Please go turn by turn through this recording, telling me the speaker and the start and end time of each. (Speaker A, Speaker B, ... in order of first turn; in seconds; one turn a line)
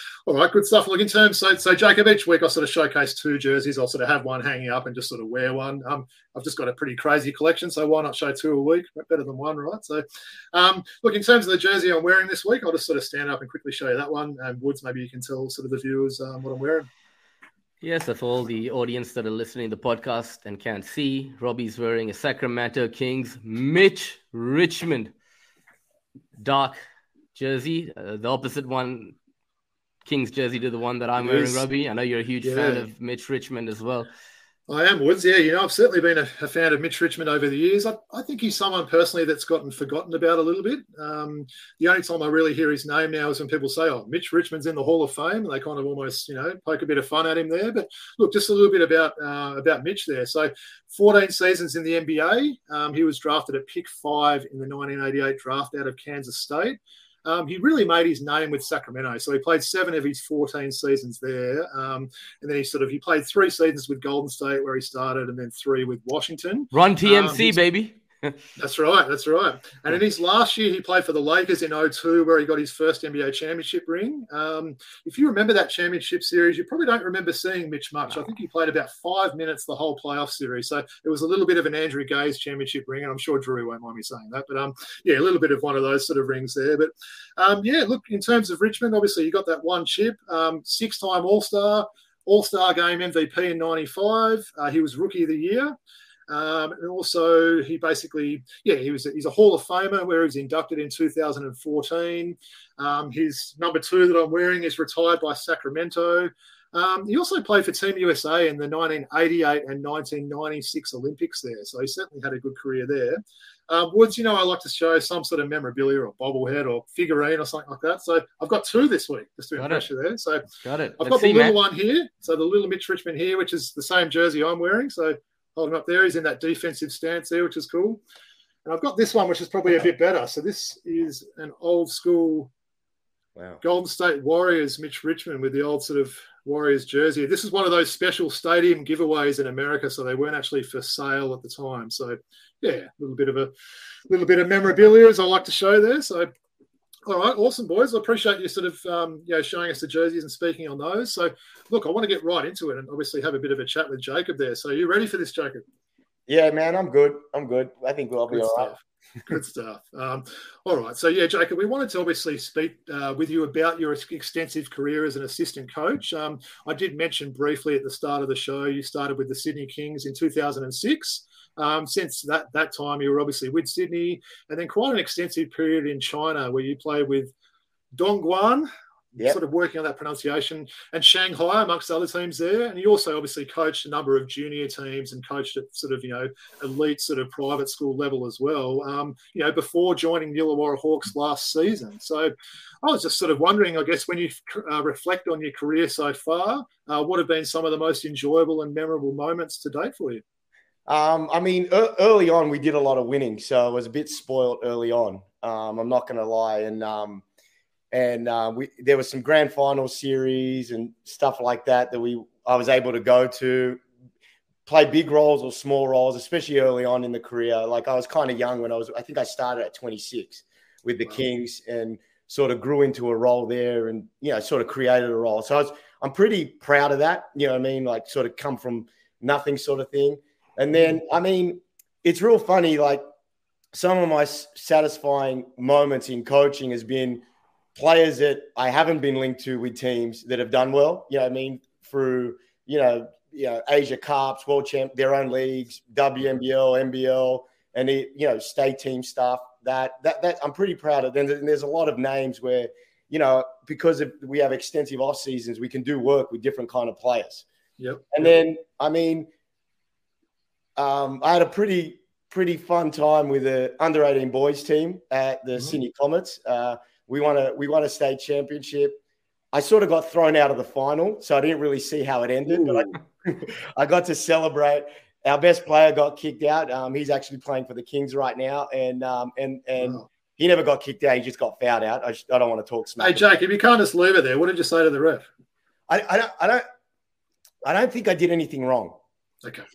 Speaker A: 0.3-16.9
Speaker B: 17.8-25.1
Speaker B: 26.4-26.8
Speaker B: 27.4-29.2
Speaker B: 30.1-34.1
Speaker A: 31.2-31.6
Speaker A: 32.4-32.9
Speaker A: 34.7-67.6
Speaker B: 66.7-68.4
Speaker A: 68.6-95.7
Speaker A: 96.3-120.5
Speaker B: 119.6-119.9
Speaker B: 120.6-121.6
Speaker A: 121.0-128.0
Speaker A: 128.7-132.5
Speaker C: 133.4-133.6
Speaker A: 133.6-143.5
Speaker A: 144.1-146.3
Speaker A: 147.1-155.6
Speaker C: 156.3-158.7
Speaker A: 158.3-177.3
Speaker A: 177.9-200.2
Speaker C: 200.9-207.2
Speaker C: 207.9-213.8
Speaker C: 214.7-233.0
Speaker C: 233.7-237.2
Speaker C: 237.8-257.5
Speaker A: 257.8-258.1
Speaker C: 258.1-259.3
Speaker C: 260.8-269.0
Speaker C: 269.5-283.3
Speaker A: 272.5-272.9
Speaker A: 279.8-280.1
Speaker A: 283.0-285.3
Speaker C: 285.9-286.6
Speaker C: 287.6-289.0